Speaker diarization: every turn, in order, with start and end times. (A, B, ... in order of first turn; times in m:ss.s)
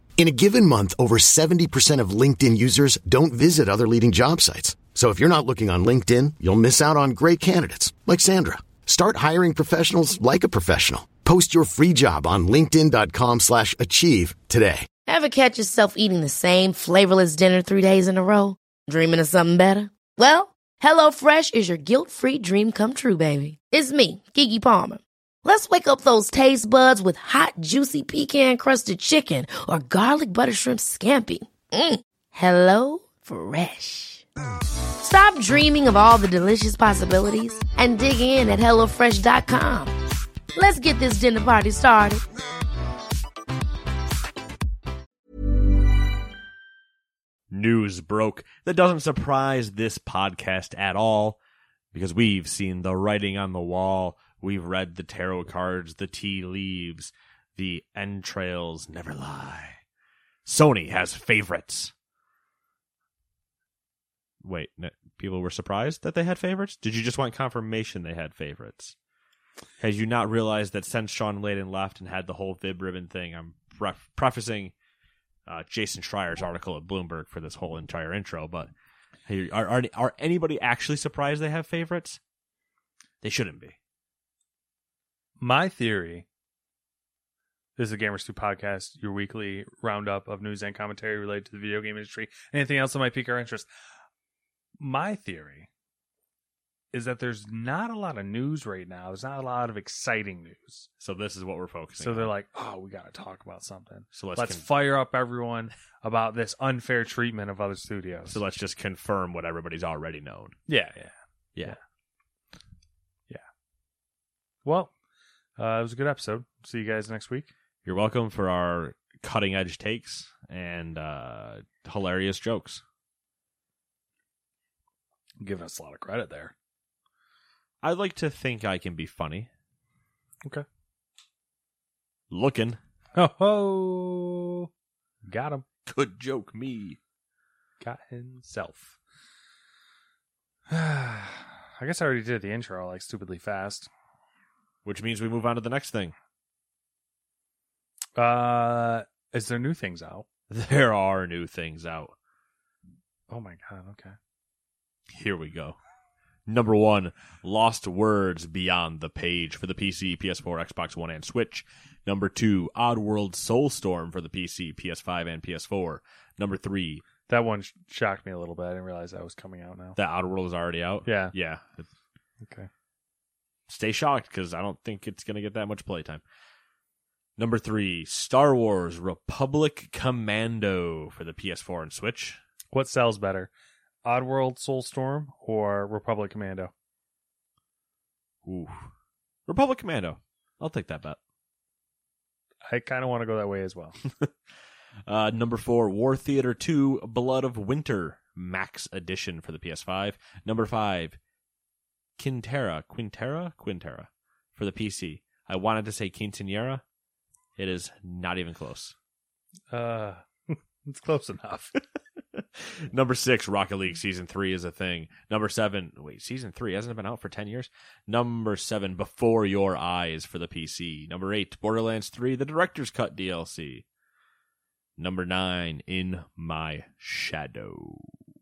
0:00.2-0:14.9 A
0:15.1-0:34.2 B
0:35.0-0:39.9 B
0:40.6-0:42.2 B
0:47.5-0:51.4 C
0:51.9-0:59.8 C
1:00.4-1:01.9 C
1:04.4-1:08.9 C
1:09.8-1:14.7 C
1:15.4-1:18.7 C
1:19.3-1:22.2 C
1:23.2-1:23.8 C
1:25.4-1:26.3 D
1:27.8-1:33.7 D
1:34.8-1:35.7 D
1:36.9-1:40.9 D
1:41.0-1:42.3 C
1:42.0-1:48.4 D
1:44.2-1:44.7 C
1:48.3-1:50.6 C
1:50.7-1:51.8 D
1:54.6-1:54.9 D
1:55.6-1:57.5 D
1:57.8-2:02.8 C
2:05.4-2:06.5 D
2:07.8-2:09.5 C
2:12.3-2:12.8 C
2:13.2-2:14.7 D
2:15.3-2:15.7 D
2:15.8-2:17.0 C
2:17.8-2:19.0 D
2:20.7-2:23.9 D
2:24.8-2:26.1 C
2:28.2-2:30.2 D
2:30.5-2:32.1 C
2:33.3-2:34.2 D
2:35.1-2:35.8 C
2:36.5-2:47.0 C
2:47.3-2:50.0 D
2:50.0-2:51.9 C
2:51.0-2:51.3 D
2:52.4-2:52.7 D
2:53.7-2:56.2 C
2:57.4-3:02.4 C
3:02.7-3:03.5 D
3:04.0-3:06.7 D
3:08.4-3:08.9 C
3:09.5-3:11.2 C
3:12.7-3:14.0 D
3:15.0-3:21.2 C
3:22.2-3:26.8 C
3:27.6-3:28.9 C
3:29.7-3:31.7 D
3:32.4-3:43.8 C
3:45.0-3:48.1 C